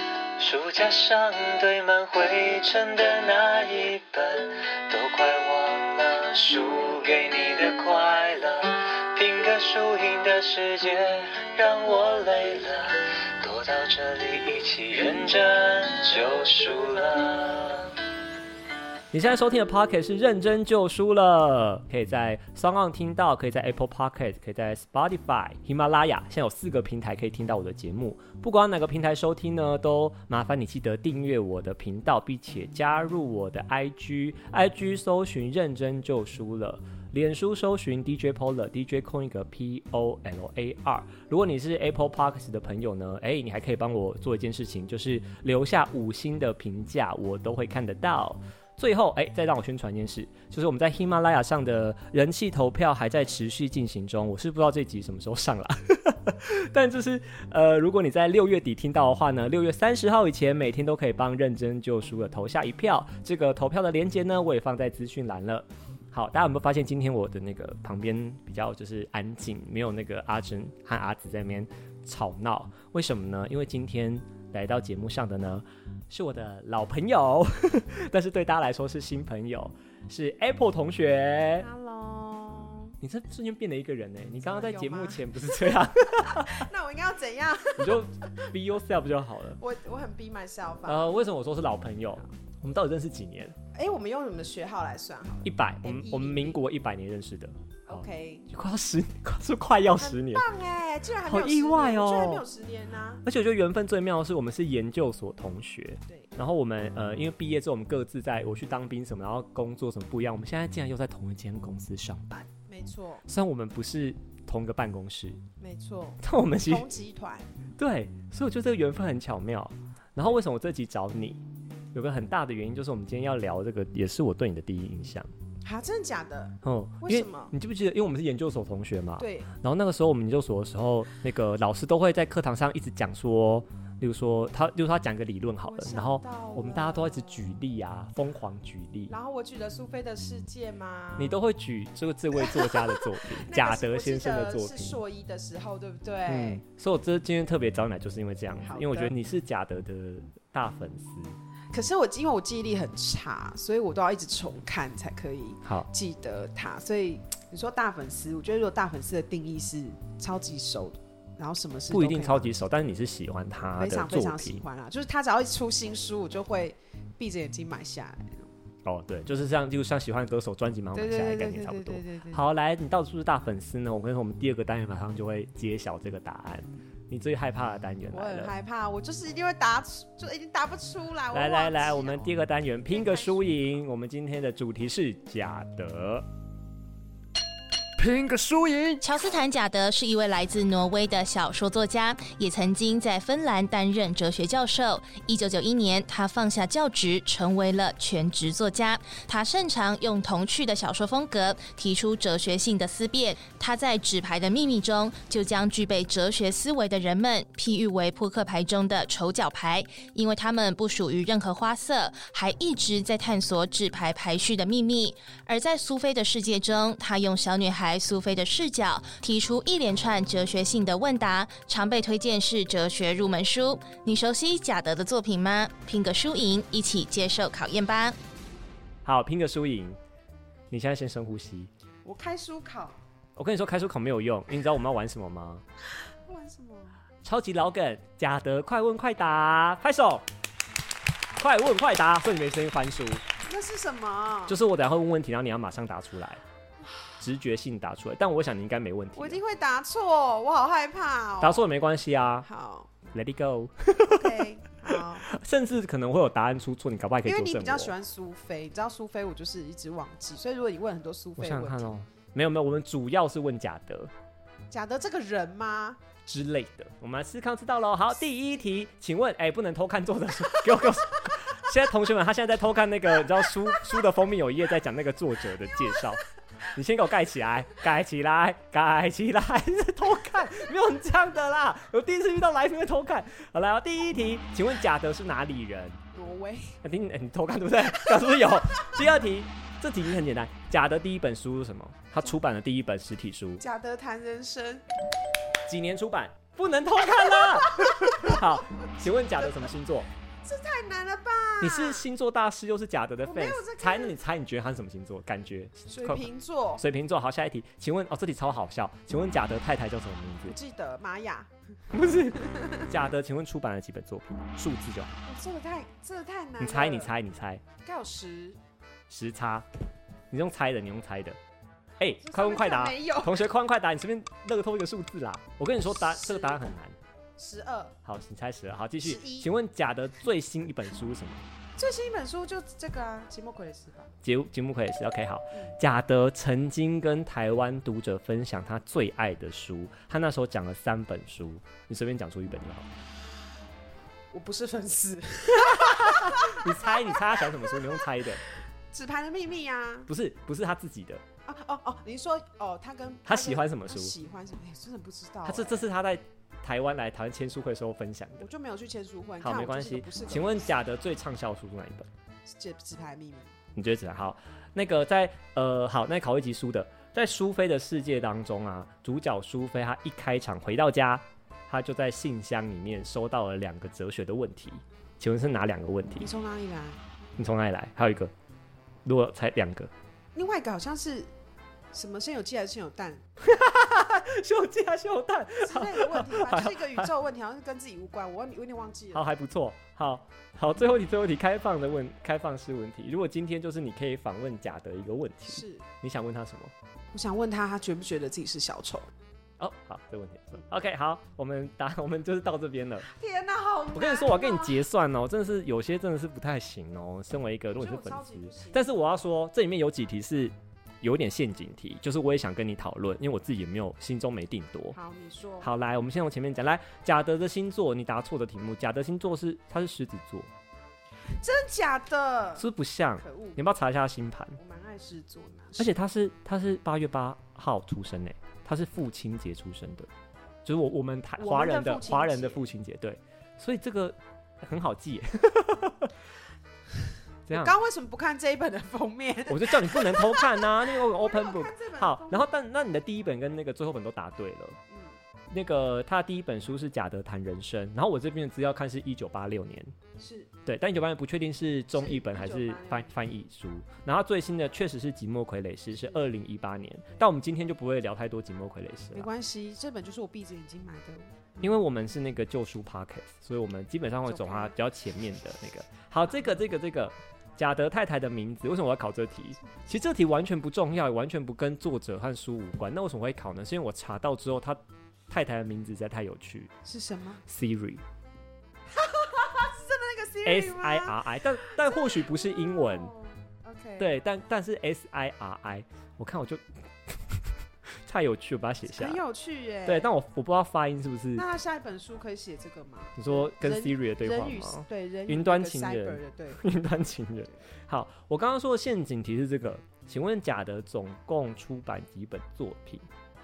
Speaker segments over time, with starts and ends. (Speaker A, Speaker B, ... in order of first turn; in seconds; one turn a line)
Speaker A: 0.4-17.9
Speaker B: 19.1-81.7
Speaker C: 81.6-83.0
Speaker B: 83.0-86.7
Speaker C: 84.4-88.5
Speaker B: 87.8-89.6
Speaker C: 89.6-91.2
Speaker B: 90.9-93.6
Speaker C: 93.7-96.6
Speaker B: 95.4-100.5
Speaker C: 97.9-98.5
Speaker C: 99.9-103.2
Speaker B: 101.2-102.4
Speaker B: 103.2-112.5
Speaker C: 112.7-113.2
Speaker B: 113.3-115.4
Speaker C: 115.6-117.5
Speaker B: 116.2-116.9
Speaker B: 117.8-121.4
Speaker B: 121.9-125.3
Speaker C: 125.6-127.5
Speaker B: 126.6-139.1
Speaker C: 129.2-129.5
Speaker C: 135.7-137.2
Speaker C: 139.1-141.4
Speaker B: 141.2-145.0
Speaker C: 142.3-146.6
Speaker B: 146.3-151.4
Speaker C: 148.6-149.1
Speaker C: 151.7-162.6
Speaker B: 161.9-164.7
Speaker C: 163.8-168.5
Speaker B: 168.8-178.5
Speaker C: 170.9-172.4
Speaker C: 178.1-182.3
Speaker B: 181.3-186.3
Speaker C: 182.9-183.5
Speaker B: 188.0-189.0
Speaker D: 189.0-228.2
Speaker B: 229.1-230.0
Speaker B: 230.7-231.7
Speaker C: 232.1-233.0
Speaker B: 233.4-235.6
Speaker C: 236.1-237.0
Speaker B: 237.2-240.3
Speaker B: 241.4-243.2
Speaker C: 243.5-244.6
Speaker B: 244.5-246.4
Speaker C: 246.8-247.1
Speaker B: 247.2-249.4
Speaker C: 249.2-251.7
Speaker B: 251.4-252.5
Speaker C: 252.4-252.9
Speaker B: 253.1-257.9
Speaker C: 254.1-255.3
Speaker C: 257.2-261.9
Speaker B: 261.4-264.1
Speaker C: 264.7-266.0
Speaker B: 266.3-286.0
Speaker C: 275.7-276.2
Speaker C: 286.1-286.8
Speaker B: 286.8-293.6
Speaker C: 288.2-289.0
Speaker C: 293.6-294.9
Speaker B: 295.7-300.1
Speaker C: 297.1-298.6
Speaker C: 299.2-299.7
Speaker C: 300.4-302.1
Speaker B: 301.6-306.3
Speaker C: 303.2-304.2
Speaker C: 305.9-306.8
Speaker B: 306.8-310.6
Speaker C: 310.5-311.5
Speaker B: 311.9-315.1
Speaker C: 312.4-312.9
Speaker C: 315.2-317.1
Speaker B: 316.6-317.6
Speaker C: 317.8-318.6
Speaker B: 319.1-319.7
Speaker B: 320.3-321.4
Speaker B: 322.0-327.0
Speaker C: 322.2-323.5
Speaker C: 325.9-326.6
Speaker C: 327.4-327.9
Speaker B: 328.0-331.4
Speaker C: 329.0-329.5
Speaker C: 331.8-334.1
Speaker B: 334.2-342.9
Speaker C: 344.3-350.1
Speaker B: 345.8-348.4
Speaker B: 350.1-351.2
Speaker C: 351.5-355.9
Speaker B: 353.2-354.1
Speaker B: 355.4-358.5
Speaker C: 358.4-360.8
Speaker B: 359.4-362.1
Speaker C: 362.5-363.6
Speaker B: 363.8-376.3
Speaker C: 376.2-377.0
Speaker B: 377.4-378.3
Speaker B: 379.1-379.9
Speaker C: 380.4-381.3
Speaker C: 381.9-383.3
Speaker B: 383.4-387.1
Speaker C: 385.6-389.2
Speaker B: 389.1-396.7
Speaker C: 395.5-395.9
Speaker C: 397.1-399.1
Speaker B: 399.6-403.1
Speaker C: 403.1-404.8
Speaker B: 403.9-415.0
Speaker C: 407.7-408.9
Speaker C: 414.9-415.7
Speaker B: 415.6-420.5
Speaker C: 421.3-422.7
Speaker B: 422.6-424.6
Speaker C: 423.2-423.6
Speaker C: 424.6-425.9
Speaker B: 425.8-430.1
Speaker B: 430.6-436.1
Speaker C: 431.4-432.7
Speaker B: 437.5-437.8
Speaker C: 437.5-442.5
Speaker B: 439.5-444.8
Speaker C: 444.9-445.2
Speaker B: 445.5-449.9
Speaker C: 450.2-450.5
Speaker B: 450.7-459.3
Speaker C: 451.9-453.1
Speaker C: 459.1-461.7
Speaker B: 461.6-476.7
Speaker C: 464.2-464.8
Speaker C: 476.8-477.4
Speaker B: 477.5-478.0
Speaker C: 478.9-484.1
Speaker B: 480.4-483.1
Speaker B: 484.0-489.2
Speaker C: 488.9-490.1
Speaker B: 489.9-491.5
Speaker C: 491.4-496.6
Speaker B: 493.2-503.1